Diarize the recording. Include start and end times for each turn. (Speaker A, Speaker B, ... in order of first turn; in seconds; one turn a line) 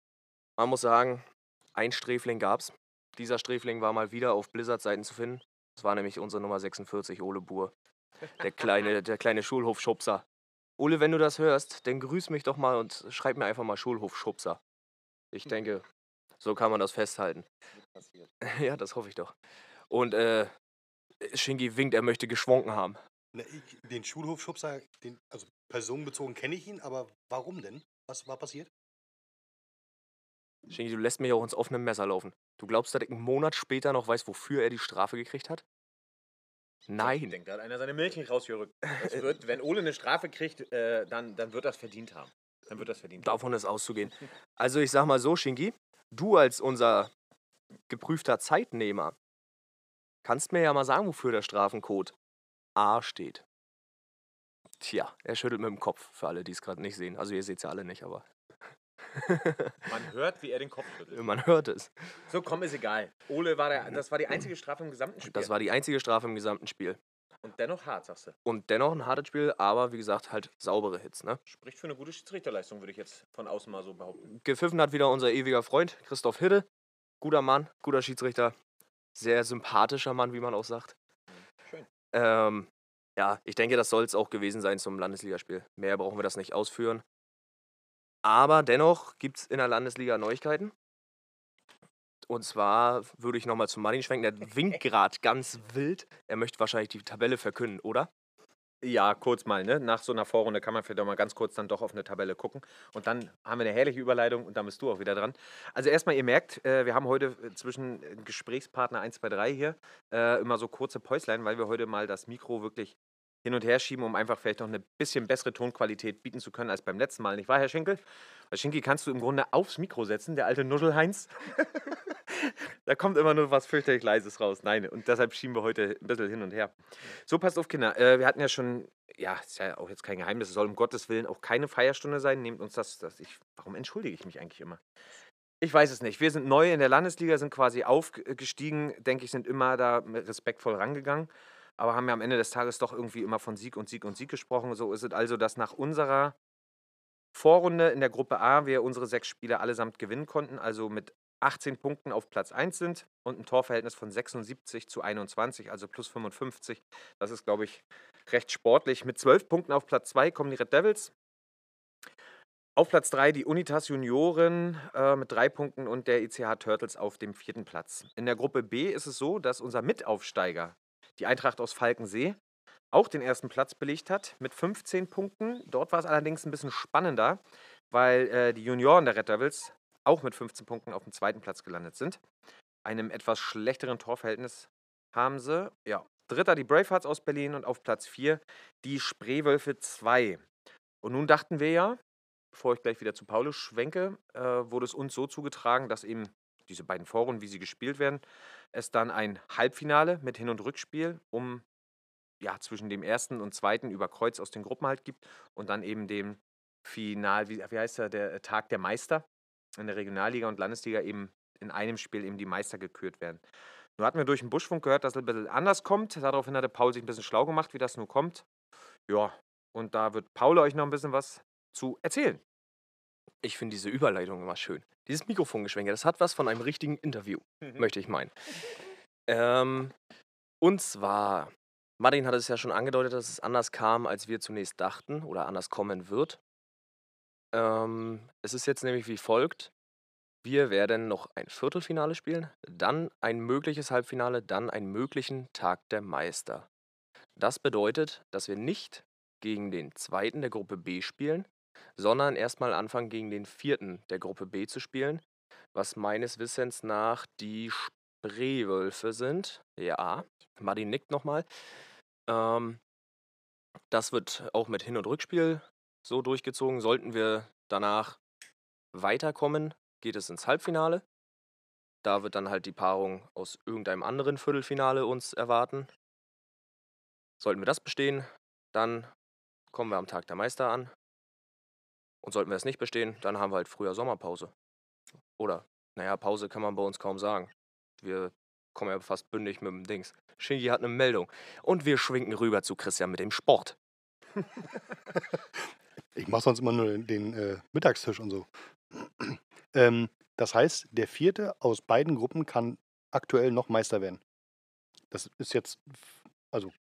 Speaker A: 0.6-7.7
Speaker A: 8.4-10.2
Speaker A: 10.8-14.6
Speaker A: 15.3-15.8
Speaker A: 16.4-17.5
Speaker B: 18.0-18.3
Speaker A: 18.4-19.3
Speaker A: 19.9-20.5
Speaker A: 21.2-23.0
Speaker C: 23.3-28.7
Speaker A: 30.7-35.6
Speaker A: 36.9-37.4
Speaker B: 37.0-43.4
Speaker A: 43.2-47.1
Speaker A: 47.9-49.1
Speaker A: 50.2-52.1
Speaker A: 52.8-53.4
Speaker A: 54.8-58.3
Speaker A: 59.1-59.9
Speaker B: 59.9-61.2
Speaker A: 61.1-61.9
Speaker B: 62.3-65.5
Speaker A: 65.2-67.0
Speaker B: 67.4-68.4
Speaker A: 68.5-71.4
Speaker B: 71.5-74.3
Speaker A: 74.4-76.7
Speaker A: 77.2-78.5
Speaker A: 79.2-80.9
Speaker A: 82.1-87.0
Speaker A: 88.2-90.7
Speaker A: 92.3-98.1
Speaker B: 98.8-126.8
Speaker B: 127.3-134.8
Speaker B: 135.6-146.3
Speaker B: 147.3-161.1
Speaker B: 162.8-172.4
Speaker B: 172.9-182.2
Speaker B: 182.8-190.4
Speaker B: 191.0-192.0
Speaker B: 192.5-201.6
Speaker B: 202.4-209.2
Speaker B: 209.8-213.4
Speaker B: 214.0-218.4
Speaker B: 219.1-222.4
Speaker A: 223.4-228.3
Speaker A: 229.3-229.9
Speaker A: 230.6-236.4
Speaker A: 237.5-239.7
Speaker A: 240.4-246.7
Speaker A: 247.4-255.2
Speaker A: 255.7-261.5
Speaker A: 262.3-262.8
Speaker A: 263.9-268.2
Speaker A: 268.9-271.0
Speaker A: 272.0-275.9
Speaker A: 277.4-279.1
Speaker A: 279.7-280.9
Speaker A: 282.2-284.5
Speaker A: 285.4-293.8
Speaker C: 296.2-304.2
Speaker C: 305.1-306.7